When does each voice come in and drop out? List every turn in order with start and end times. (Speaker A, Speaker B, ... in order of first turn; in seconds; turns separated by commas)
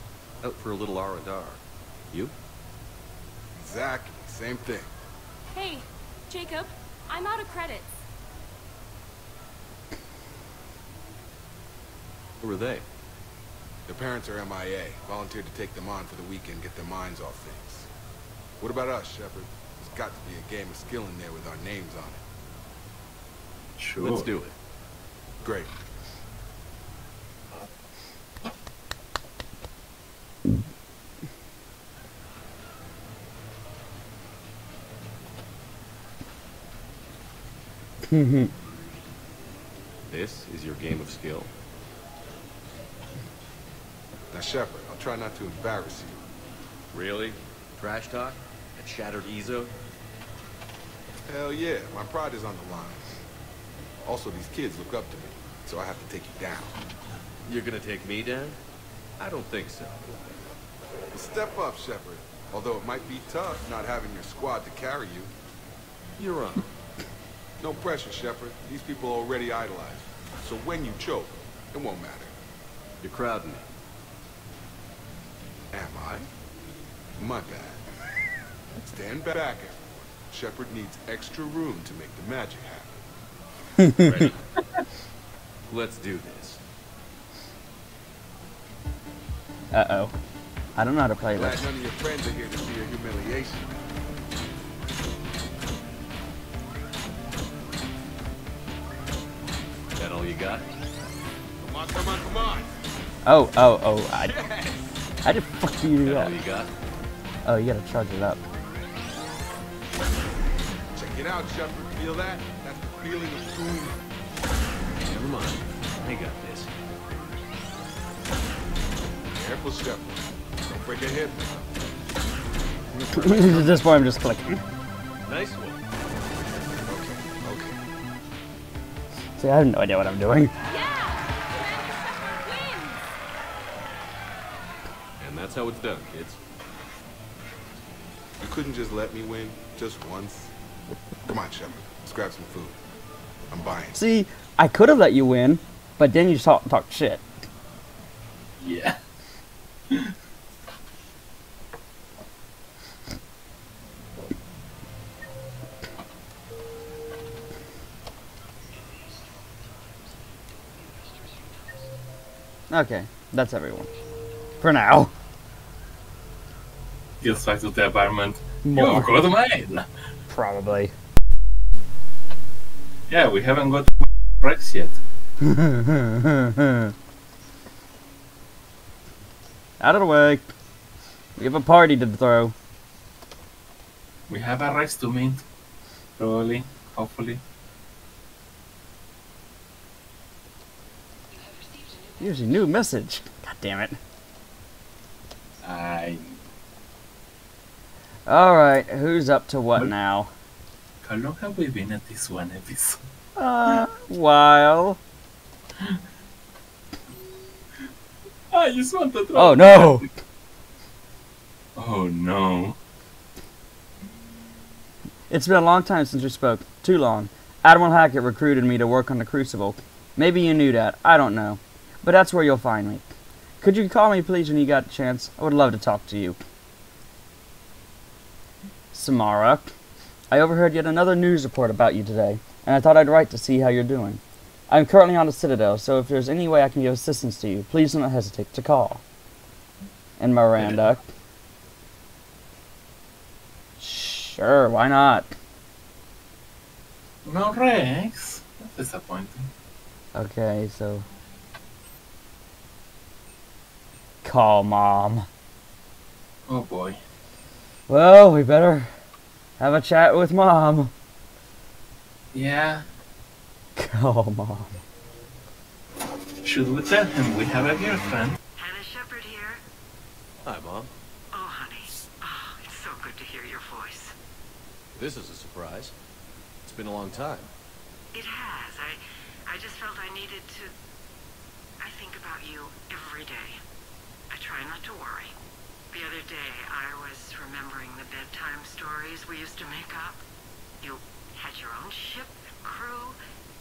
Speaker A: 0.4-2.3, Speaker B: 3.6-4.9, Speaker C: 5.5-8.0, Speaker A: 12.4-12.8, Speaker B: 13.9-17.9, Speaker B: 18.6-22.2, Speaker D: 23.8-24.3, Speaker A: 24.0-24.5, Speaker B: 25.4-25.7, Speaker E: 38.1-38.5, Speaker A: 40.0-41.5, Speaker B: 44.3-46.2, Speaker A: 46.9-49.7, Speaker B: 51.2-53.1, Speaker B: 54.0-56.8, Speaker A: 57.4-58.6, Speaker A: 59.2-60.1, Speaker B: 61.1-65.3, Speaker A: 66.2-66.7, Speaker B: 67.6-72.3, Speaker A: 73.0-73.7, Speaker B: 75.7-76.3, Speaker B: 77.2-77.8, Speaker B: 78.8-83.0, Speaker E: 83.8-84.3, Speaker A: 85.7-86.6, Speaker E: 89.7-90.1, Speaker E: 90.8-91.7, Speaker B: 91.3-93.8, Speaker A: 99.9-100.7, Speaker B: 101.6-102.7, Speaker E: 103.2-104.3, Speaker B: 104.2-104.9, Speaker E: 105.2-106.3, Speaker A: 106.0-106.7, Speaker E: 107.4-108.4, Speaker B: 110.9-114.0, Speaker A: 115.0-116.7, Speaker B: 119.3-121.8, Speaker A: 122.9-123.8, Speaker E: 123.1-124.6, Speaker A: 125.2-125.8, Speaker B: 126.8-127.8, Speaker E: 129.4-130.5, Speaker C: 130.7-133.0, Speaker A: 135.2-136.4, Speaker B: 138.4-140.5, Speaker B: 141.2-142.8, Speaker B: 143.5-144.0, Speaker E: 143.9-147.2, Speaker D: 148.6-149.0, Speaker E: 162.7-163.9, Speaker E: 164.6-165.1, Speaker D: 167.2-169.9, Speaker E: 168.6-169.1, Speaker E: 170.3-170.9, Speaker D: 173.1-175.0, Speaker E: 175.4-176.9, Speaker E: 179.8-180.5, Speaker E: 181.4-182.5, Speaker D: 184.3-185.4, Speaker D: 186.2-187.4, Speaker E: 192.2-194.0, Speaker D: 195.6-196.4, Speaker E: 198.3-200.3, Speaker D: 201.0-203.0, Speaker E: 203.3-205.0, Speaker D: 208.5-210.1, Speaker E: 209.3-210.0, Speaker D: 211.8-212.8, Speaker E: 215.3-223.0, Speaker E: 223.6-226.4, Speaker E: 228.9-229.7, Speaker E: 230.3-239.0, Speaker E: 240.2-241.0, Speaker D: 240.6-240.9, Speaker E: 243.8-245.3, Speaker D: 247.2-249.5, Speaker E: 250.1-251.1, Speaker E: 254.2-255.2, Speaker D: 256.5-257.0, Speaker E: 257.9-258.9, Speaker E: 259.6-260.9, Speaker D: 262.3-262.9, Speaker E: 263.8-264.8, Speaker D: 266.4-268.4, Speaker F: 268.6-269.6, Speaker A: 270.4-270.9, Speaker F: 271.3-274.1, Speaker A: 274.9-275.9, Speaker A: 276.6-277.5, Speaker F: 278.1-280.7, Speaker F: 281.8-283.6, Speaker F: 284.3-285.3, Speaker F: 285.9-290.2, Speaker F: 290.8-293.2